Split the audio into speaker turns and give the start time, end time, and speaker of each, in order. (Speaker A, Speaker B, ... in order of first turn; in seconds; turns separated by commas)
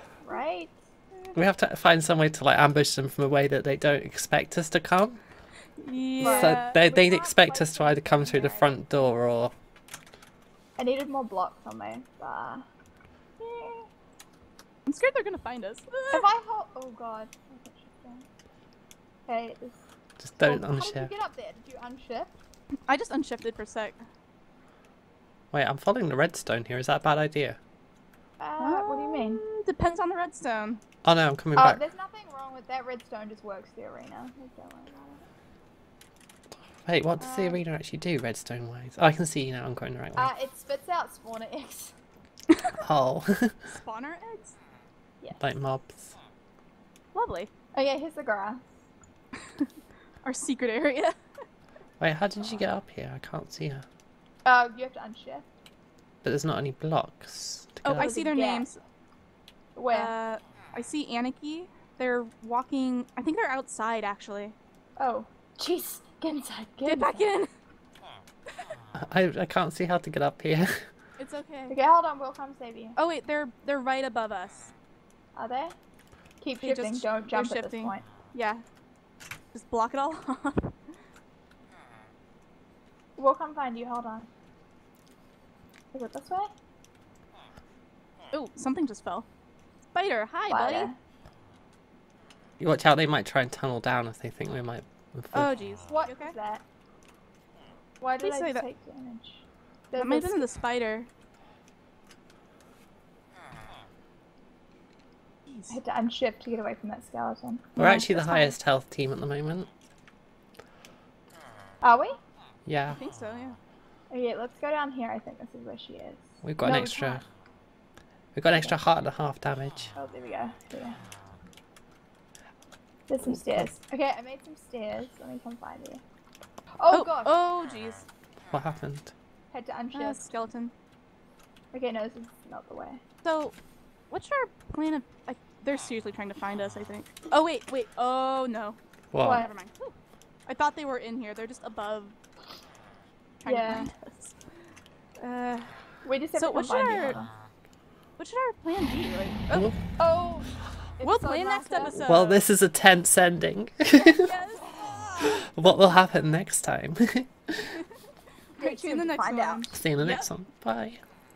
Speaker A: 0.2-1.4, Speaker B: 1.3-5.2, Speaker C: 5.8-6.8, Speaker B: 6.2-9.5, Speaker A: 6.2-8.7, Speaker A: 10.8-12.6, Speaker A: 13.4-13.9, Speaker C: 14.8-16.3, Speaker A: 16.1-18.2, Speaker A: 19.3-19.8, Speaker B: 20.2-21.1, Speaker A: 20.4-22.4, Speaker C: 22.9-24.0, Speaker B: 25.5-27.6, Speaker A: 28.4-29.4, Speaker C: 28.6-30.8, Speaker B: 31.0-31.8, Speaker A: 31.6-35.2, Speaker B: 36.7-40.3, Speaker C: 37.2-37.6, Speaker A: 40.2-41.9, Speaker B: 42.8-43.7, Speaker C: 43.7-44.6, Speaker B: 45.4-46.1, Speaker C: 47.1-47.5, Speaker A: 47.7-48.7, Speaker C: 50.2-51.1, Speaker B: 52.0-53.9, Speaker A: 54.4-55.5, Speaker B: 56.2-58.1, Speaker C: 57.8-58.8, Speaker A: 58.0-58.7, Speaker A: 59.7-60.1, Speaker C: 59.9-64.5, Speaker A: 65.0-67.3, Speaker C: 66.8-67.5, Speaker B: 69.0-70.9, Speaker C: 71.2-71.8, Speaker A: 71.7-73.0, Speaker C: 73.0-74.7, Speaker A: 75.3-75.7, Speaker A: 76.4-78.0, Speaker C: 76.6-78.6, Speaker C: 79.5-80.7, Speaker A: 83.2-84.3, Speaker A: 85.9-86.5, Speaker C: 88.3-89.2, Speaker C: 89.9-90.9, Speaker A: 90.5-91.0, Speaker B: 92.6-95.5, Speaker C: 95.3-96.3, Speaker A: 95.9-96.6, Speaker A: 98.0-100.5, Speaker C: 98.2-98.6, Speaker C: 100.0-101.1, Speaker C: 105.5-105.8, Speaker A: 105.7-107.8, Speaker C: 107.8-108.5, Speaker B: 107.8-109.7, Speaker A: 111.8-112.2, Speaker B: 112.7-113.0, Speaker C: 112.9-113.6, Speaker A: 114.1-117.2, Speaker B: 116.4-117.2, Speaker B: 118.3-119.9, Speaker A: 119.9-121.0, Speaker A: 123.1-126.0, Speaker B: 123.2-123.7, Speaker A: 126.8-127.4, Speaker C: 126.9-128.0, Speaker B: 128.5-129.1, Speaker A: 129.5-130.2, Speaker C: 129.9-130.7, Speaker A: 131.7-133.0, Speaker C: 133.2-133.5, Speaker C: 134.1-139.9, Speaker B: 139.1-139.4, Speaker A: 139.2-139.5, Speaker C: 140.5-142.1, Speaker C: 143.4-144.4, Speaker A: 143.4-143.9, Speaker C: 145.2-145.8, Speaker A: 146.0-147.3, Speaker C: 146.3-147.2, Speaker C: 148.2-149.7, Speaker B: 149.5-149.8, Speaker A: 150.0-152.0, Speaker C: 151.0-152.4, Speaker B: 152.0-154.3, Speaker C: 153.9-155.5, Speaker B: 155.2-157.8, Speaker C: 158.5-160.3, Speaker A: 158.6-159.7, Speaker B: 159.7-161.0